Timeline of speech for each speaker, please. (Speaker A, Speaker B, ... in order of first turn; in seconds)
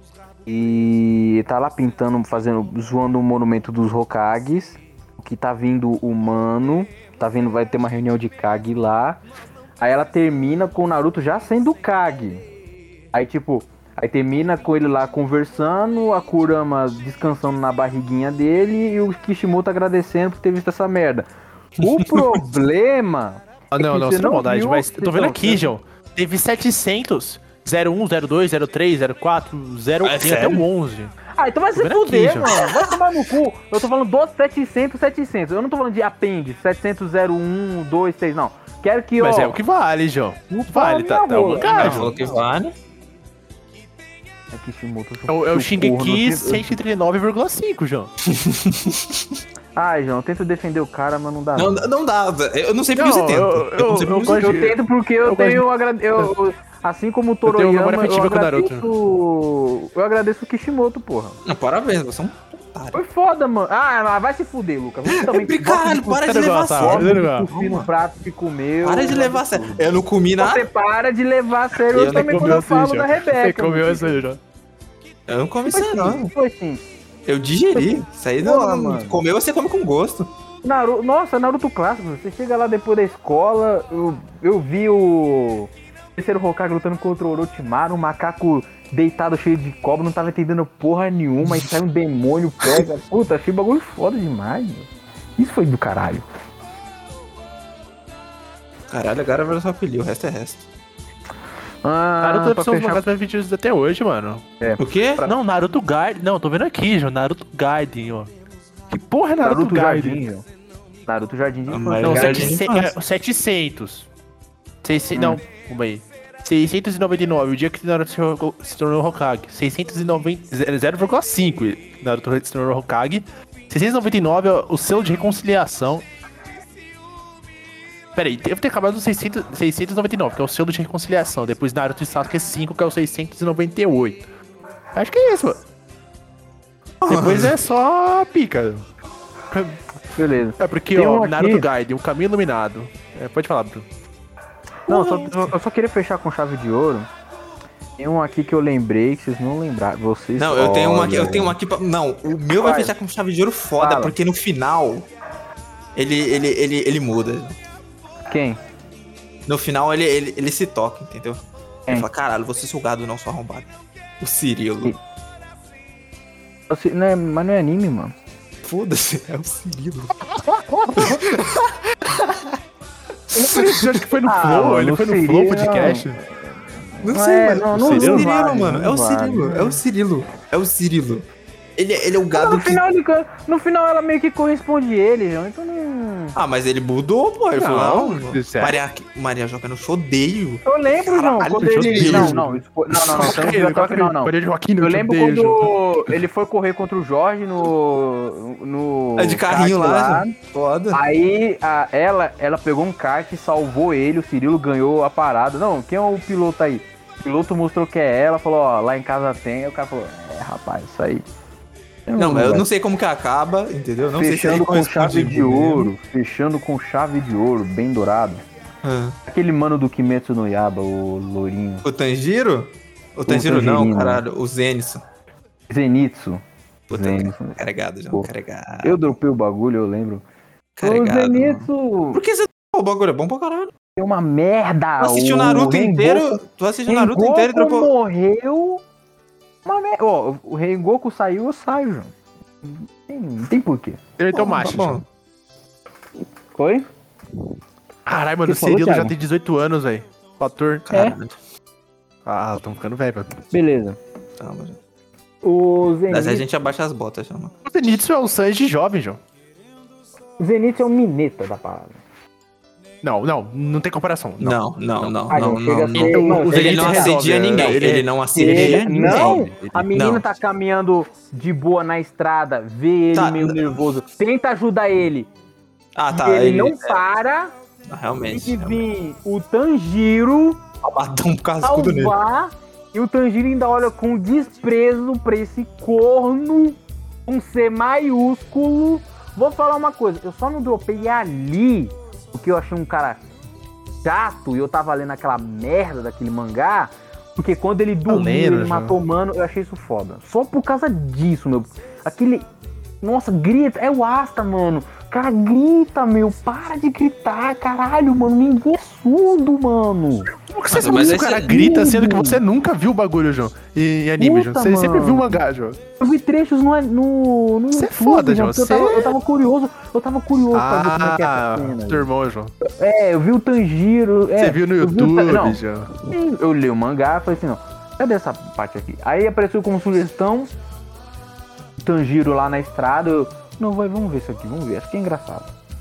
Speaker A: 0.5-9.2, 9.8-12.4, 13.1-25.7, 31.3-39.6, 40.5-42.4, 44.5-46.7, 49.8-51.9, 54.4-61.4, 62.9-69.9, 70.4-74.2, 75.6-76.8, 77.7-79.2, 80.6-96.2, 101.8-103.0, 104.6-105.3, 109.4-110.5, 111.0-112.6, 115.1-115.4, 140.1-141.7, 144.9-147.1, 148.0-151.6, 152.6-152.9, 153.8-154.1, 158.3-158.6, 166.7-168.1, 174.2-179.8, 182.3-186.4, 190.6-200.3, 200.9-211.2, 212.1-212.7, 214.2-218.4, 219.2-221.8, 223.3-224.2, 225.7-227.6, 228.8-230.2, 230.8-232.2, 234.0-238.8, 239.6-242.1, 242.6-244.0, 246.6-246.8, 248.4-249.1, 253.5-254.0, 255.4-256.4, 260.4-262.0, 265.3-267.1, 268.3-275.3, 276.1-277.5, 278.3-280.6, 281.6-293.2, 294.0-302.4, 303.0-310.3, 311.4-312.4, 314.2-315.4, 316.0-322.1, 322.6-325.6, 326.1-330.5, 331.8-335.5
Speaker B: 22.0-22.4, 30.0-30.6, 41.7-42.7, 48.2-49.2, 51.5-54.5, 61.4-63.0, 65.0-67.9, 68.8-70.7, 71.8-72.6, 75.3-76.3, 77.2-80.3, 98.9-100.7, 104.8-105.2, 111.7-112.9, 137.0-137.5, 144.9-145.5, 150.4-155.1, 155.9-157.6, 159.5-164.9, 168.6-170.2, 170.9-172.1, 173.3-174.1, 177.0-181.2, 181.8-182.8, 186.3-192.4, 199.2-201.0, 212.2-215.9, 218.8-219.2, 221.8-225.0, 226.9-229.1, 230.8-233.7, 235.0-237.9, 244.3-245.0, 250.9-251.3, 254.4-254.8, 256.1-257.5, 264.4-269.4, 269.9-270.2, 273.1-273.7, 275.9-277.0, 277.9-278.8, 280.8-282.1, 310.7-311.5
Speaker C: 23.7-31.1, 31.7-32.6, 39.2-42.1, 45.3-48.1, 53.0-56.3, 57.5-58.9, 66.1-67.5, 72.0-74.4, 102.2-104.4, 105.2-108.3, 108.9-110.2, 112.0-114.1, 114.8-126.1, 128.1-134.2, 134.9-135.6, 137.0-138.9, 139.5-139.8, 140.6-143.8, 170.2-171.3, 173.3-176.2, 177.7-178.3, 187.5-188.8, 191.4-196.2, 244.2-245.0, 248.1-250.9, 252.2-253.4, 257.6-259.2, 263.0-269.9, 298.1-298.9, 310.4-315.8, 317.7-319.1, 320.5-322.5, 324.4-326.1